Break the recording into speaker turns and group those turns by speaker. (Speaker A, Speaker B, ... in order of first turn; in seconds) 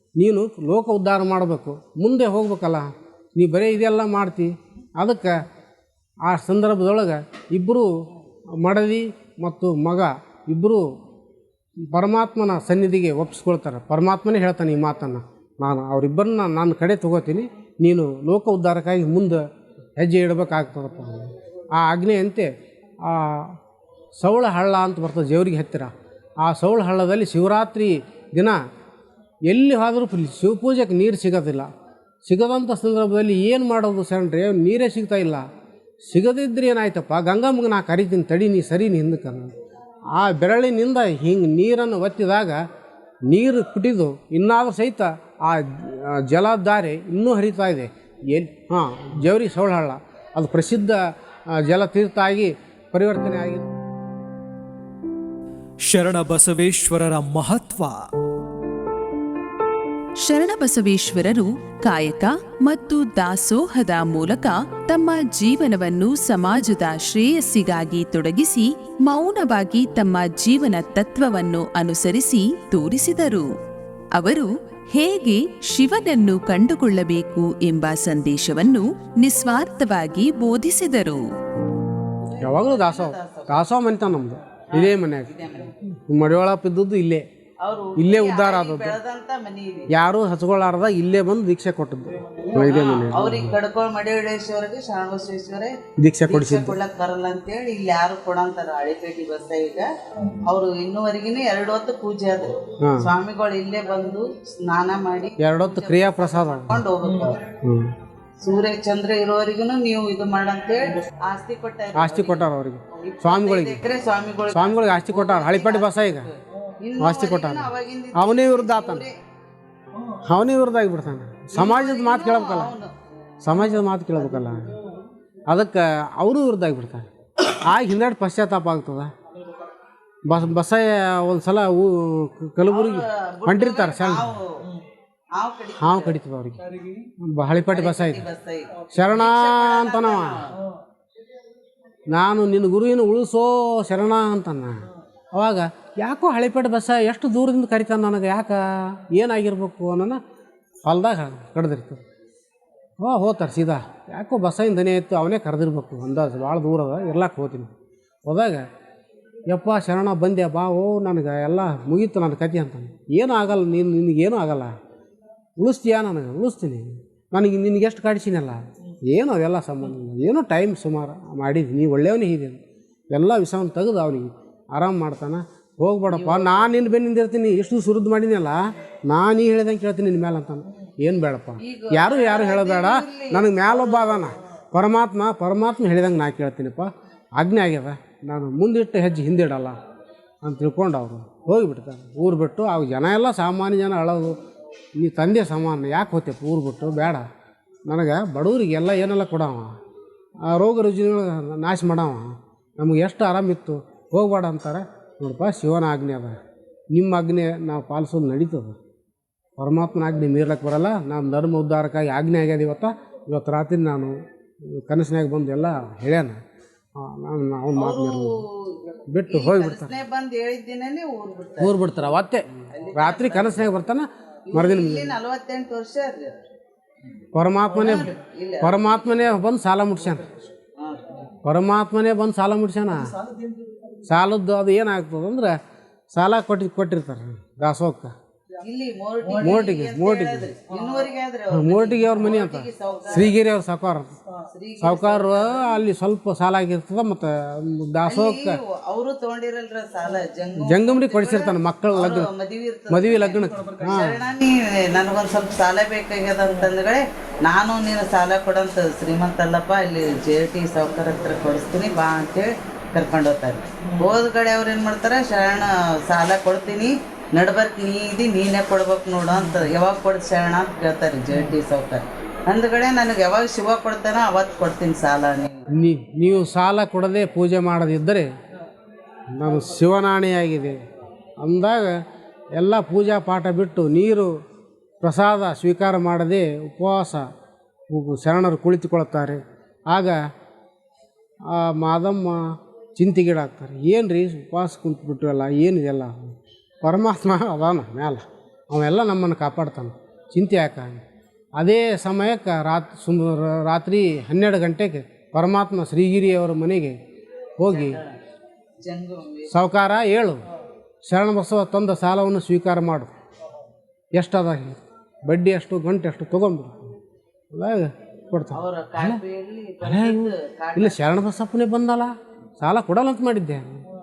Speaker A: 0.2-5.4, 6.2-7.9, 8.6-10.9, 11.9-19.4, 20.0-22.5, 23.0-23.6, 24.2-25.9, 26.4-28.6, 29.5-31.7, 32.3-35.5, 36.1-39.5, 40.1-42.6, 43.3-53.7, 82.4-85.3, 85.9-87.3, 88.0-89.0, 89.9-93.6, 96.0-96.8, 102.8-103.1, 105.4-106.8, 107.4-107.9, 111.9-113.8, 114.5-116.3, 117.0-119.0, 120.2-122.7, 123.4-124.8, 125.5-129.1, 130.2-134.3, 135.8-138.2, 138.9-140.4, 142.1-150.2, 150.8-152.0, 153.0-157.7, 158.3-158.7, 159.5-164.8, 165.6-172.6, 173.1-189.8, 190.4-194.4, 195.0-197.3, 197.9-199.8, 200.4-206.4, 206.9-208.8, 209.6-216.4, 217.0-218.4, 219.1-219.9, 221.6-225.2, 227.3-228.1, 228.6-230.4, 231.4-233.1, 234.0-235.6, 236.1-238.1, 239.4-240.5, 241.5-244.2, 244.8-248.6, 250.6-252.3, 252.9-254.2, 275.8-278.3, 279.3-280.8, 281.4-282.0, 282.6-284.3, 285.0-287.3, 287.9-290.2, 291.5-301.0, 301.6-307.0, 307.6-308.0, 309.5-310.4, 311.1-313.1, 314.1-317.0, 317.5-319.2, 319.8-323.9
Speaker B: 55.9-58.0
Speaker C: 60.2-73.5, 74.2-81.2
Speaker D: 82.3-83.7, 84.7-85.7, 87.6-90.0, 92.5-95.8, 96.3-99.9, 100.5-107.4, 108.4-119.2, 121.5-122.9, 132.7-134.7, 135.3-136.2, 137.7-140.5, 176.2-176.6, 181.6-184.4, 217.8-221.8, 222.7-223.7, 224.5-226.3, 227.7-229.1, 230.8-231.2, 238.6-243.3, 244.5-245.7, 248.1-275.6, 307.7-308.2, 308.8-309.5, 318.5-321.0